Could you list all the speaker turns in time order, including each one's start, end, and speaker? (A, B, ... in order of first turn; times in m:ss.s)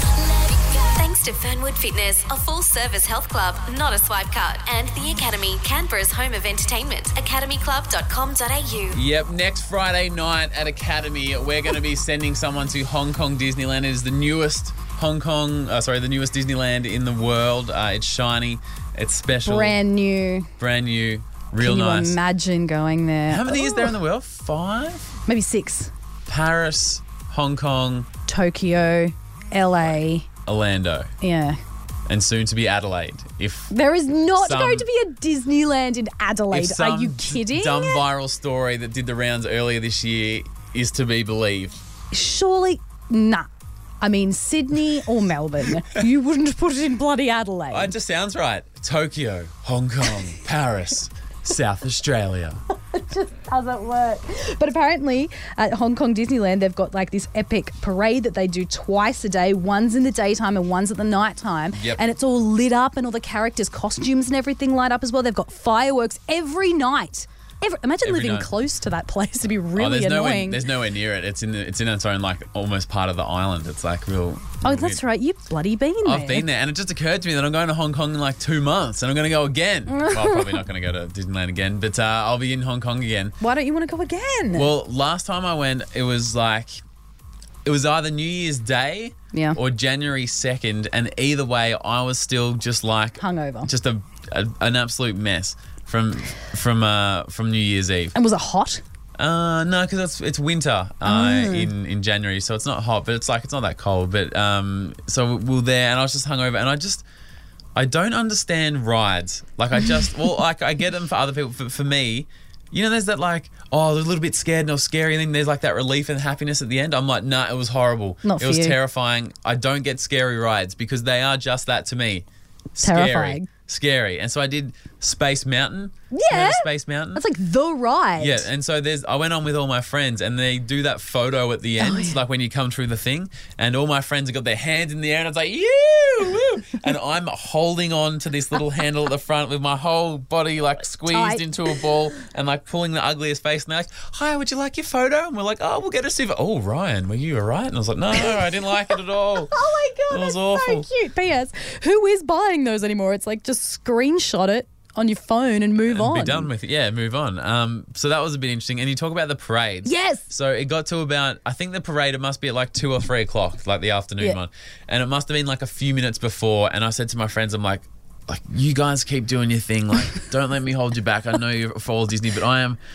0:00.3-0:09.0 A
0:08.9-0:19.8 B
0:19.4-0:20.5 C
0:20.6-0:22.2 B
0:21.6-0:24.0 C
0:23.3-0:25.1 B
0:25.3-0:25.9 C
0:26.3-0:28.1 B
0:28.2-0:30.3 C
0:30.4-0:31.1 B
0:31.2-0:31.6 C
0:32.1-0:33.7 B
0:33.7-0:38.0 C
0:34.4-0:34.8 B
0:36.5-0:41.8 B
0:42.1-0:43.5 C
0:44.0-0:47.9 C
0:47.7-0:52.6 B
0:52.9-1:10.6 C
1:01.7-1:02.0 B
1:08.0-1:08.5 B
1:09.7-1:15.0 B
1:14.6-1:16.5 C
1:16.0-1:23.3 B
1:19.9-1:20.6 C
1:23.4-1:24.7 C
1:24.5-1:26.8 B
1:27.6-1:38.1 B
1:29.3-1:29.6 C
1:33.2-1:33.7 C
1:38.1-1:38.8 C
1:39.2-1:47.0 B
1:41.0-1:41.7 C
1:47.8-2:02.2 B
1:58.2-1:58.8 C
2:02.8-2:03.5 C
2:02.8-2:07.2 B
2:06.1-2:08.5 C
2:08.2-2:29.5 B
2:11.8-2:12.2 C
2:21.1-2:21.9 C
2:28.1-2:28.8 C
2:29.5-2:36.5 C
2:30.1-2:30.8 B
2:35.8-2:52.8 B
2:39.8-2:40.3 C